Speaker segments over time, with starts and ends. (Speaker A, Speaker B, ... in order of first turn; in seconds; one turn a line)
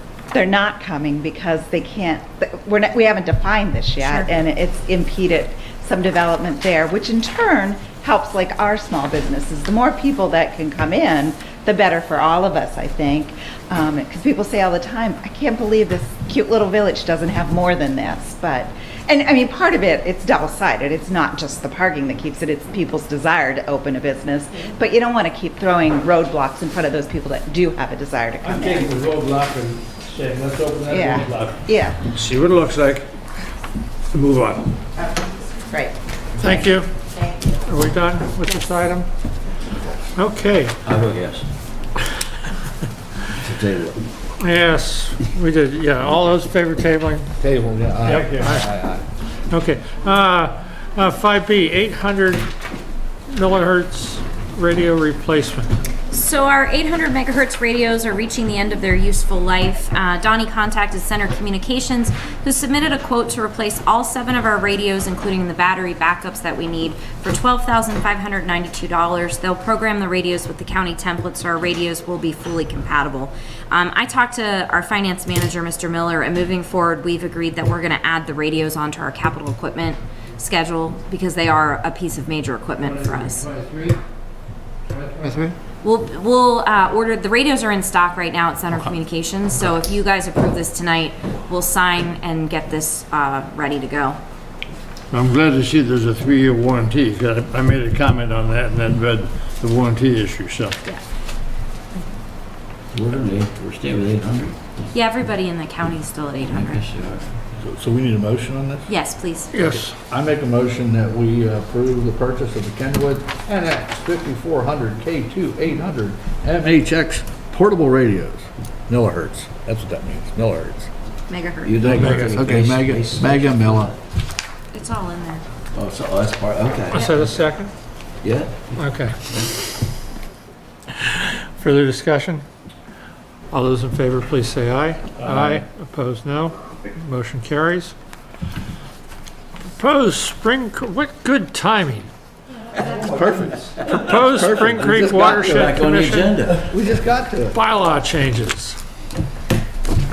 Speaker A: 0.3-28.9
Speaker B: 4.0-4.3
Speaker C: 28.4-31.5
Speaker A: 30.9-32.0
Speaker C: 32.2-33.0
Speaker C: 34.1-34.7
Speaker A: 35.0-37.6
Speaker D: 36.4-36.9
Speaker D: 37.6-39.1
Speaker D: 40.1-40.8
Speaker E: 40.8-41.5
Speaker E: 43.4-44.0
Speaker D: 44.4-47.3
Speaker F: 47.4-49.0
Speaker D: 48.0-48.7
Speaker D: 49.5-52.5
Speaker D: 53.3-55.7
Speaker B: 56.1-83.5
Speaker C: 82.9-84.0
Speaker C: 84.9-85.5
Speaker B: 85.8-94.2
Speaker C: 95.1-100.8
Speaker E: 102.9-104.5
Speaker B: 104.9-106.8
Speaker E: 106.5-107.3
Speaker F: 107.6-108.9
Speaker B: 108.9-109.6
Speaker D: 109.5-109.9
Speaker F: 109.7-120.9
Speaker B: 121.3-122.1
Speaker E: 121.6-123.9
Speaker F: 121.8-123.9
Speaker D: 122.0-122.3
Speaker B: 124.7-125.4
Speaker E: 125.7-127.3
Speaker B: 126.9-127.2
Speaker D: 126.9-127.7
Speaker E: 128.2-128.6
Speaker D: 128.8-129.1
Speaker D: 131.1-132.4
Speaker D: 133.5-137.9
Speaker C: 135.2-135.6
Speaker D: 139.8-142.1
Speaker F: 142.8-145.8
Speaker D: 143.9-146.3
Speaker E: 144.8-146.6
Speaker F: 146.6-147.6
Speaker D: 147.5-148.8